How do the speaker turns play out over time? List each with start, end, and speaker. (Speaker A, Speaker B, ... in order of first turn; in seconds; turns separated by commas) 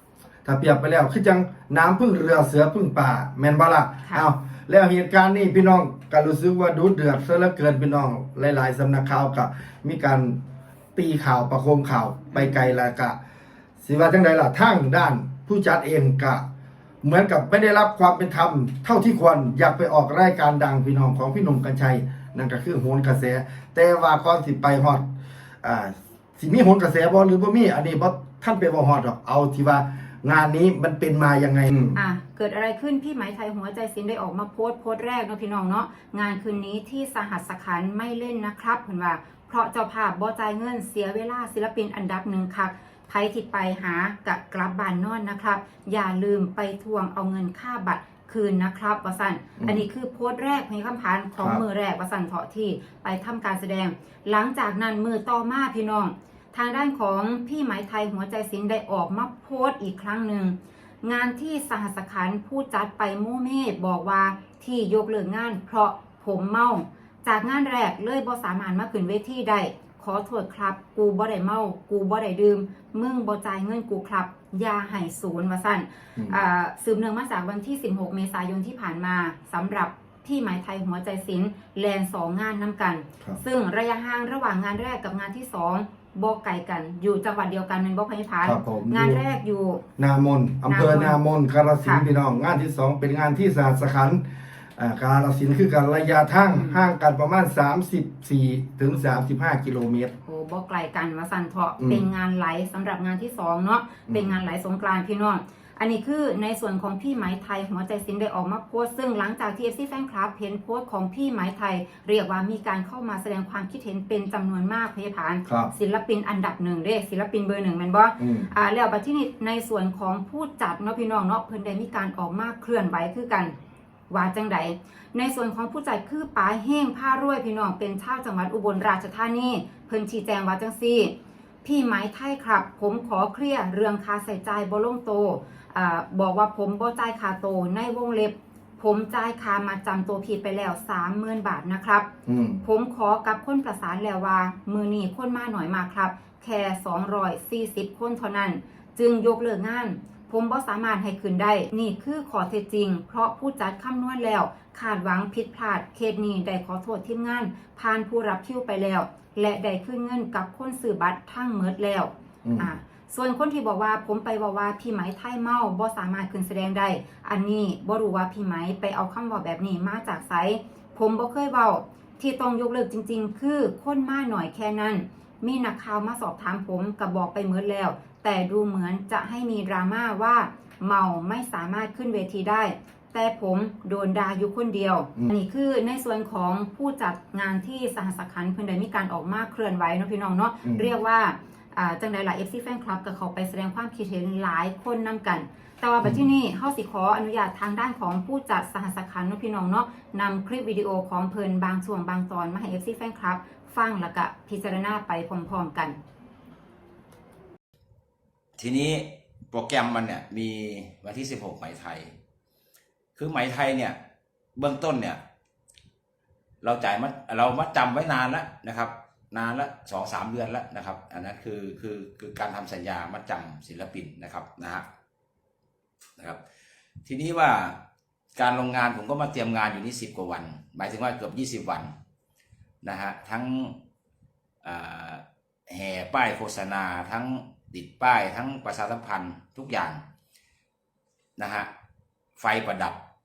Speaker A: 0.4-10.4, Speaker A: 10.9-13.2, Speaker B: 12.3-12.6, Speaker A: 13.8-16.4, Speaker A: 17.0-25.0, Speaker A: 25.6-32.0, Speaker B: 31.9-89.8, Speaker A: 88.4-89.2, Speaker A: 90.0-94.2, Speaker B: 90.7-91.2, Speaker A: 94.8-100.1, Speaker B: 96.5-96.8, Speaker B: 100.2-123.5, Speaker A: 101.8-102.0, Speaker A: 104.1-104.4, Speaker A: 118.2-118.5, Speaker B: 124.1-131.1, Speaker B: 131.6-142.1, Speaker A: 142.2-142.6, Speaker B: 142.6-206.0, Speaker A: 162.4-162.7, Speaker A: 190.6-190.9, Speaker C: 208.6-212.1, Speaker C: 213.2-214.0, Speaker C: 214.6-215.2, Speaker C: 216.6-224.8, Speaker C: 227.0-227.8, Speaker C: 228.3-231.9, Speaker C: 232.8-233.8, Speaker C: 234.6-240.0, Speaker C: 241.4-241.7, Speaker C: 242.4-243.0